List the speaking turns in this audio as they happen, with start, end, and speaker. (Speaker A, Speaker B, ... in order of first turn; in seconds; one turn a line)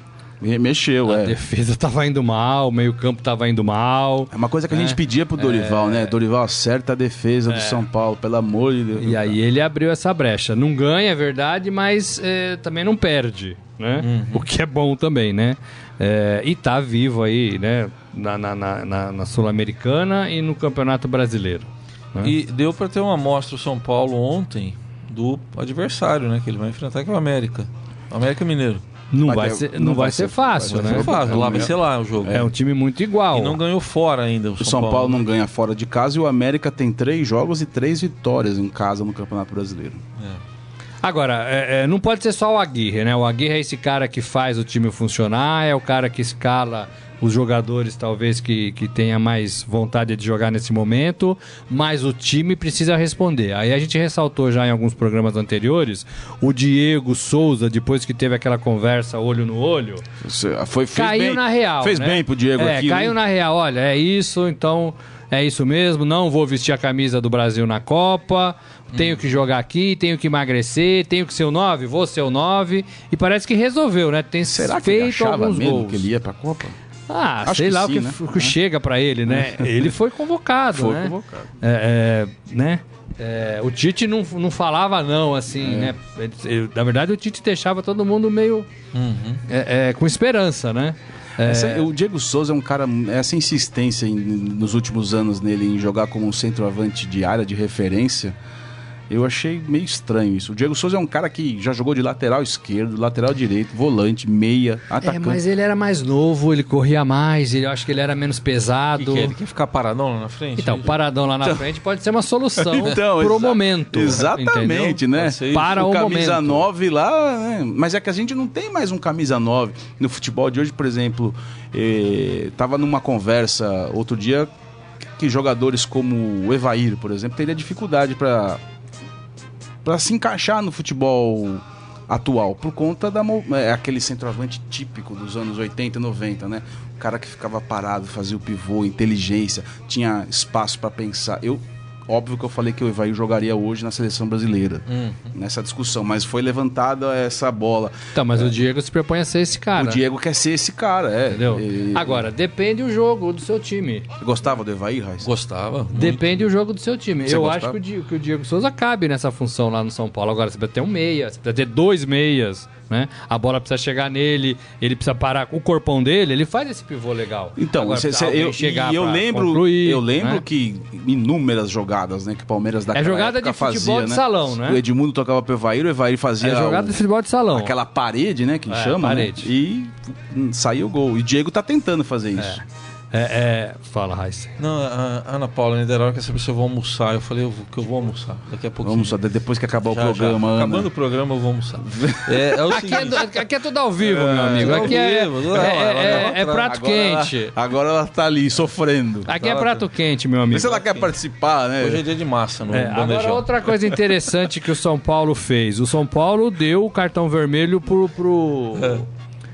Speaker A: 0.4-1.4
Speaker B: 1.0-6.1
Speaker A: 4.3-9.3
Speaker B: 7.5-7.8
Speaker B: 8.9-22.3
Speaker C: 14.0-14.5
Speaker C: 22.2-28.8
Speaker B: 29.1-31.7
Speaker A: 29.2-32.5
Speaker C: 30.7-32.5
Speaker B: 32.2-33.6
Speaker C: 33.3-35.2
Speaker A: 34.6-40.0
Speaker B: 41.0-60.0
Speaker A: 60.2-63.2
Speaker B: 60.9-76.1
Speaker C: 68.9-69.2
Speaker A: 74.4-76.7
Speaker B: 77.1-88.7
Speaker A: 77.4-78.5
Speaker A: 79.3-79.9
Speaker A: 80.7-81.5
Speaker A: 85.6-85.9
Speaker C: 88.9-89.4
Speaker B: 89.5-91.9
Speaker A: 91.4-98.3
Speaker A: 99.1-105.4
Speaker B: 105.0-109.3
Speaker C: 109.0-111.0
Speaker B: 110.6-116.6
Speaker A: 112.6-124.5
Speaker C: 115.2-115.8
Speaker A: 125.2-128.6
Speaker A: 129.8-148.5
Speaker C: 144.9-145.2
Speaker B: 148.1-150.0
Speaker A: 149.8-152.3
Speaker B: 151.3-154.1
Speaker A: 154.2-155.3
Speaker C: 155.2-156.5
Speaker B: 155.9-170.4
Speaker A: 157.2-157.8
Speaker A: 167.6-177.0
Speaker B: 172.9-174.8
Speaker B: 176.4-177.7
Speaker A: 177.5-182.6
Speaker B: 178.7-179.5
Speaker B: 182.4-184.5
Speaker C: 184.6-189.2
Speaker A: 188.8-190.9
Speaker C: 189.8-193.3
Speaker A: 191.8-192.7
Speaker B: 192.7-197.5
Speaker A: 194.0-195.0
Speaker C: 194.3-196.7
Speaker A: 196.0-199.3
Speaker B: 199.2-201.0
Speaker C: 199.4-199.8
Speaker A: 200.5-202.0
Speaker C: 201.8-203.5
Speaker B: 202.7-209.1
Speaker C: 208.7-209.0